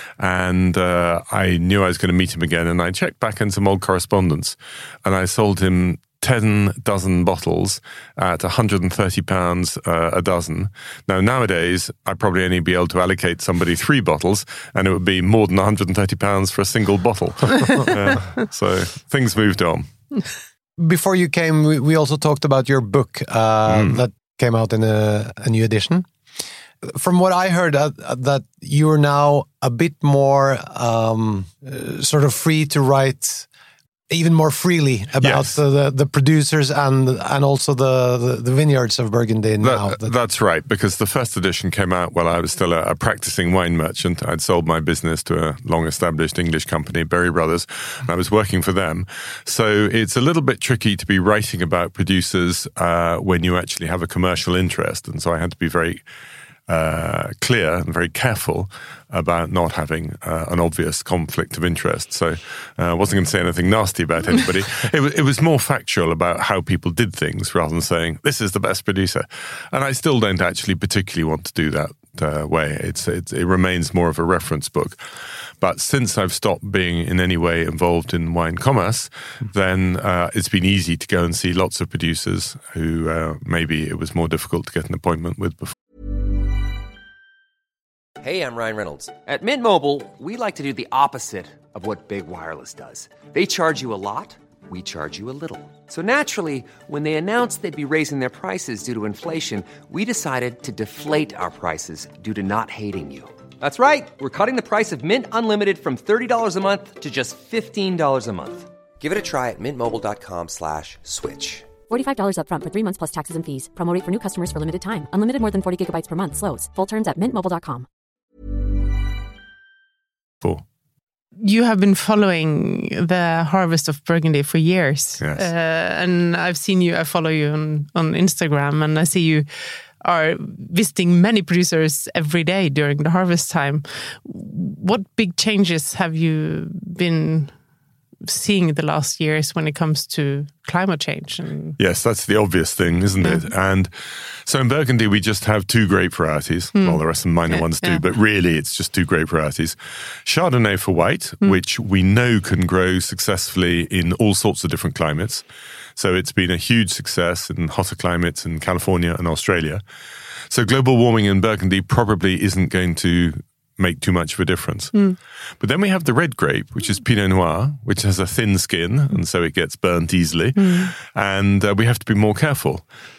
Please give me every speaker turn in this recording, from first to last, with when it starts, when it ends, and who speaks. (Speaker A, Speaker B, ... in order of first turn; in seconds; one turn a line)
Speaker A: 0.2-19.9
Speaker B: 20.8-26.1
Speaker A: 23.7-24.0
Speaker B: 26.8-33.5
Speaker B: 34.1-40.1
Speaker A: 35.2-35.6
Speaker A: 39.6-56.0
Speaker A: 56.7-75.0
Speaker A: 75.6-85.8
Speaker C: 88.2-111.7
Speaker D: 111.9-117.9
Speaker E: 121.4-129.5
Speaker A: 125.2-125.5
Speaker E: 130.0-137.6
Speaker E: 138.3-141.8
Speaker A: 141.8-155.4
Speaker E: 143.2-143.5
Speaker E: 146.8-148.0
Speaker A: 156.0-159.8
Speaker A: 160.5-165.1
Speaker A: 165.6-172.8
Speaker E: 170.6-170.9